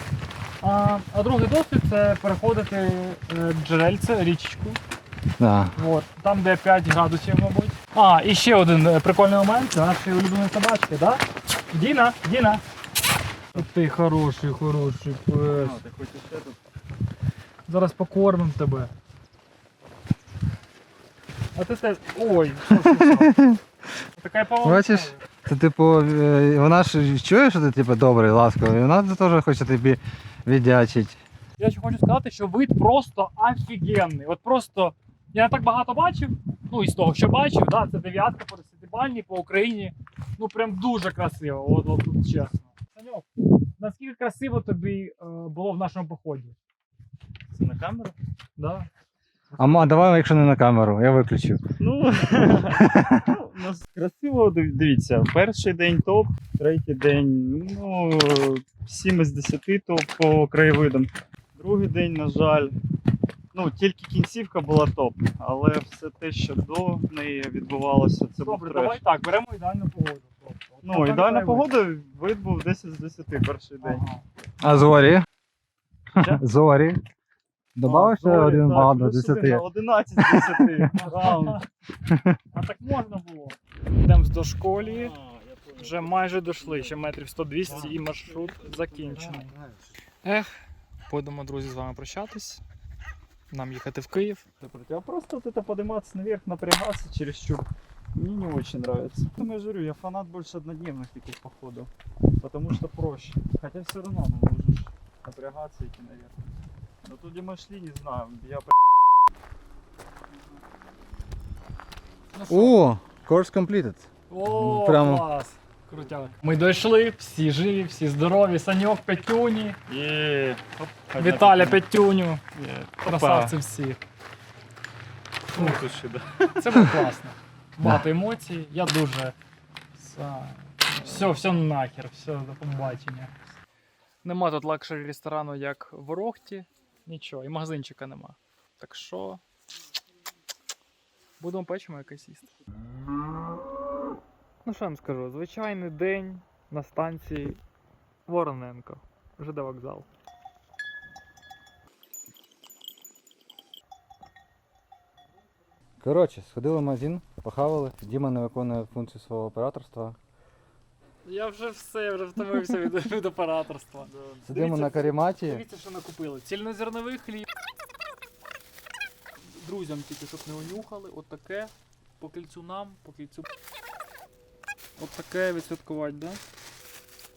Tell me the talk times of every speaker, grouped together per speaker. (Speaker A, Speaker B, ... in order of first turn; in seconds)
Speaker A: 0.6-4.8, 5.8-12.6, 13.5-15.8, 17.7-18.9, 21.5-23.3, 24.2-25.2, 31.6-46.5, 48.6-48.9, 68.4-71.8, 73.8-74.2, 81.0-81.7, 82.5-85.1, 85.8-89.5, 90.2-90.5, 91.1-92.6, 93.5-94.4, 112.3-112.8, 114.3-119.8, 121.2-122.4, 123.0-124.0, 126.6-129.3, 130.0-133.3, 134.2-139.4, 141.4-142.5, 144.6-147.6, 148.3-150.1, 161.2-167.4, 169.4-173.5, 175.0-176.4
Speaker B: 5.4-5.8, 22.7-23.6, 24.6-31.2, 49.5-51.6, 52.8-53.3, 74.6-75.2, 76.1-77.0, 77.8-79.6, 80.2-80.9, 82.1-82.4, 89.3-89.7, 112.5-115.2, 156.0-160.2, 164.4-165.6
Speaker C: 15.6-16.6, 47.5-48.1, 51.8-62.7, 63.5-69.0, 70.8-74.0, 77.8-81.6, 84.8-87.1, 87.6-89.5, 94.6-106.3, 107.0-108.7, 119.9-121.8, 122.5-123.6, 125.5-126.5, 130.9-131.3, 164.0-164.5